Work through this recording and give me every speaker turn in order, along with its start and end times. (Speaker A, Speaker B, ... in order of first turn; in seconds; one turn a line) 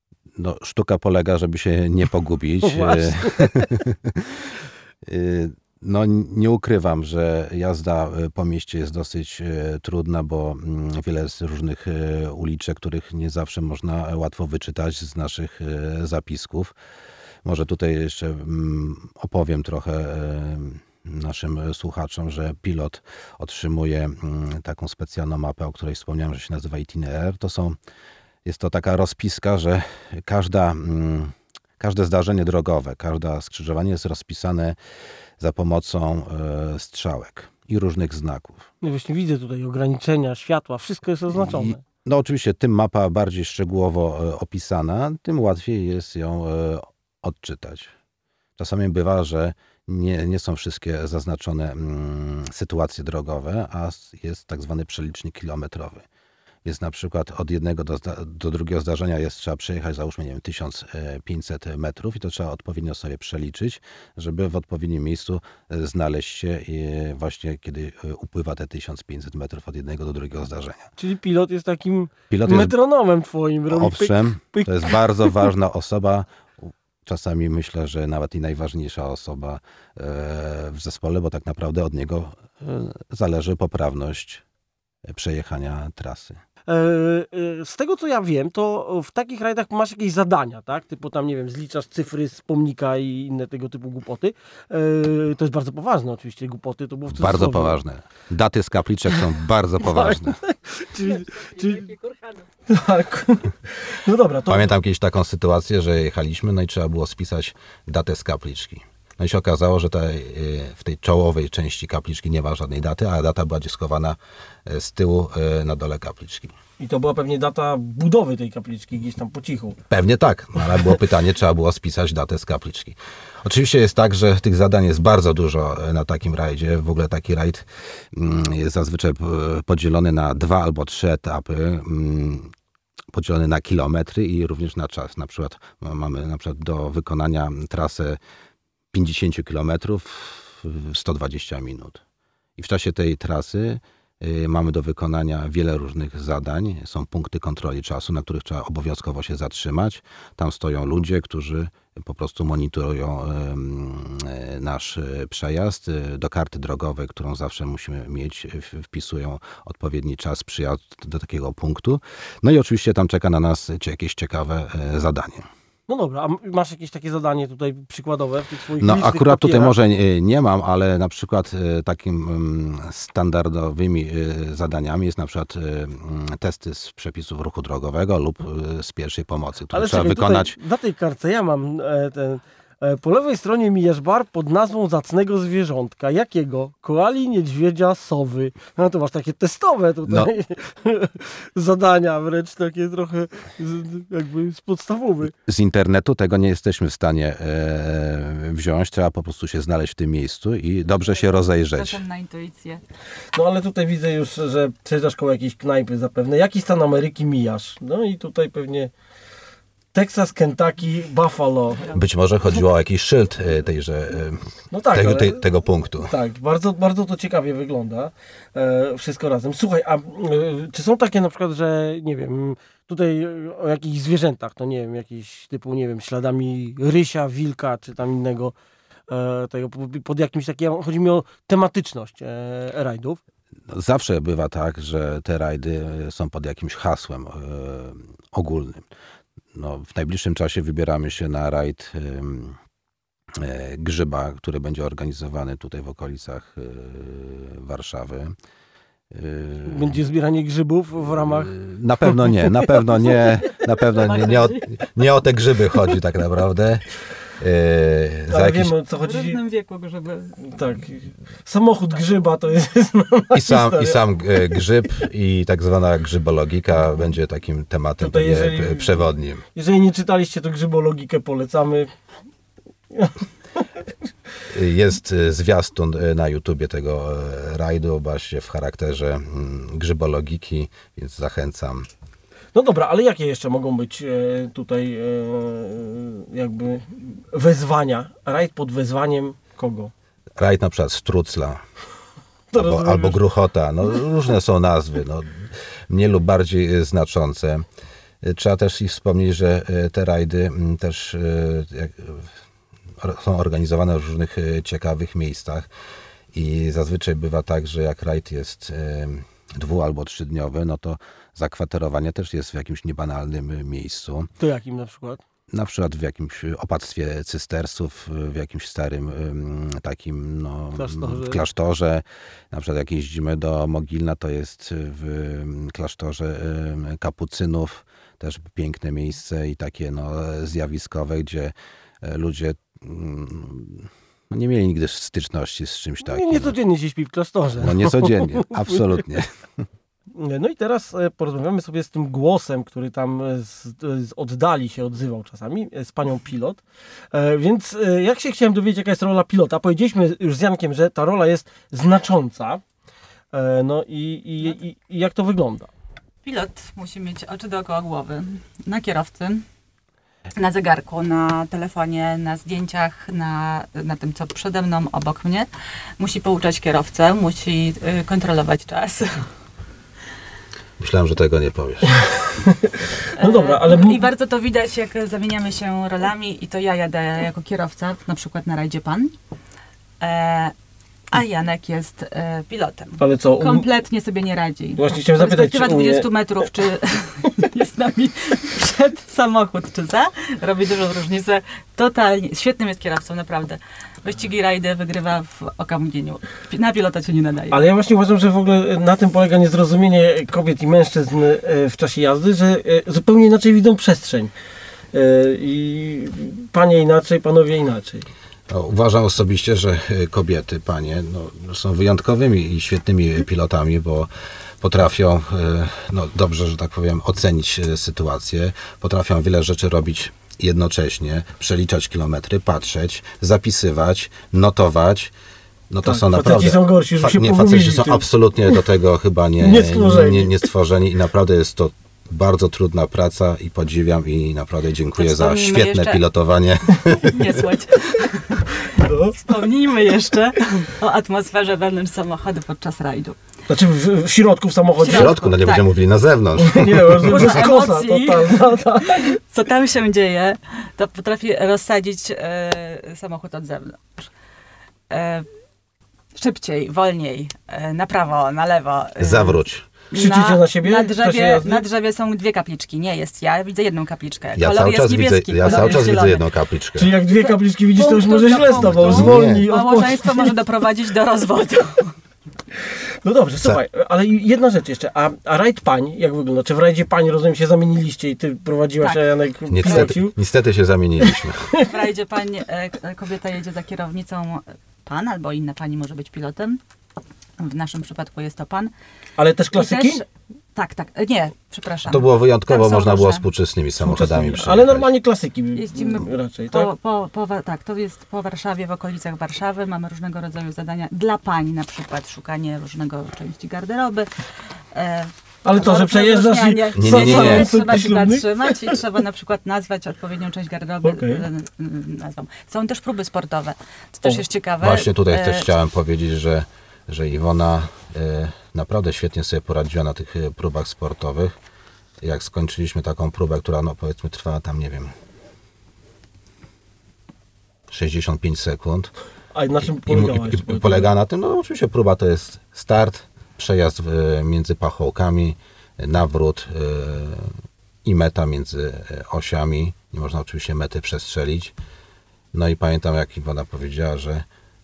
Speaker A: 0.3-16.7
Speaker B: 2.6-3.6
Speaker A: 17.4-27.8
Speaker A: 28.4-34.8
Speaker A: 35.4-38.7
Speaker B: 38.8-41.8
Speaker A: 41.3-47.9
Speaker A: 48.6-56.0
Speaker A: 56.6-70.9
Speaker B: 71.0-75.3
Speaker A: 72.3-72.7
Speaker A: 73.7-84.4
Speaker A: 85.0-86.4
Speaker B: 86.7-97.8
Speaker A: 97.1-100.4
Speaker B: 99.8-102.0
Speaker B: 102.7-104.7
Speaker A: 104.5-116.5
Speaker B: 116.8-119.8
Speaker A: 119.9-132.5
Speaker A: 133.1-138.2
Speaker A: 138.9-142.0
Speaker A: 142.6-165.5
Speaker B: 165.9-169.7
Speaker A: 168.8-180.6
Speaker B: 179.7-195.3
Speaker A: 195.3-202.0
Speaker C: 200.9-202.8
Speaker B: 203.3-208.9
Speaker B: 209.9-211.9
Speaker A: 211.9-216.1
Speaker B: 214.7-215.4
Speaker B: 216.0-228.5
Speaker B: 229.1-233.2
Speaker A: 233.7-238.9
Speaker A: 239.5-242.6
Speaker A: 243.3-248.3
Speaker A: 249.1-250.0
Speaker B: 249.6-251.5
Speaker A: 251.2-256.9
Speaker C: 253.9-254.7
Speaker A: 257.4-258.7
Speaker B: 258.3-259.4
Speaker C: 259.0-260.4
Speaker B: 260.4-264.0
Speaker A: 263.3-269.4
Speaker B: 268.0-269.0
Speaker B: 269.5-271.9
Speaker B: 272.9-273.6
Speaker A: 274.5-281.9
Speaker B: 282.5-289.9
Speaker A: 290.4-291.6
Speaker B: 292.5-293.2
Speaker A: 292.5-297.6
Speaker A: 298.2-302.3
Speaker A: 303.0-305.7
Speaker A: 306.3-314.3
Speaker B: 314.4-315.2
Speaker A: 315.5-336.6
Speaker B: 320.7-321.4
Speaker B: 336.0-338.9
Speaker A: 337.6-339.3
Speaker B: 340.1-352.6
Speaker B: 353.3-355.7
Speaker C: 356.2-359.4
Speaker C: 360.4-369.3
Speaker A: 370.8-372.2
Speaker B: 371.9-374.0
Speaker C: 373.2-379.1
Speaker C: 380.0-380.5
Speaker C: 381.1-397.7
Speaker B: 383.0-383.6
Speaker B: 384.8-386.1
Speaker B: 397.5-404.3
Speaker B: 404.9-408.1
Speaker A: 408.5-414.1
Speaker A: 414.6-425.1
Speaker A: 425.7-437.5
Speaker B: 425.8-428.1
Speaker B: 429.4-430.4
Speaker C: 435.0-436.0
Speaker C: 437.0-443.2
Speaker B: 438.6-439.2
Speaker B: 443.5-445.3
Speaker C: 444.8-445.7
Speaker A: 444.9-447.4
Speaker B: 446.4-449.2
Speaker C: 447.1-454.1
Speaker C: 454.9-455.3
Speaker C: 456.1-466.2
Speaker A: 459.0-459.7
Speaker B: 459.9-461.6
Speaker A: 464.4-466.9
Speaker B: 465.4-465.8
Speaker B: 466.8-470.3
Speaker C: 467.0-471.9
Speaker A: 468.5-469.5
Speaker B: 473.0-480.1
Speaker C: 478.8-479.1
Speaker A: 479.5-481.5
Speaker C: 479.6-479.9
Speaker B: 481.0-481.7
Speaker C: 481.6-486.6
Speaker C: 487.4-488.7
Speaker B: 489.2-490.0
Speaker C: 489.5-493.2
Speaker A: 491.8-494.9
Speaker B: 493.8-496.7
Speaker C: 495.5-504.1
Speaker C: 504.7-515.5
Speaker B: 505.4-508.8
Speaker A: 506.8-507.6
Speaker B: 510.8-511.2
Speaker A: 514.6-521.4
Speaker A: 522.0-524.9
Speaker A: 527.7-528.9
Speaker B: 529.3-530.9
Speaker A: 529.8-541.5
Speaker A: 542.3-544.2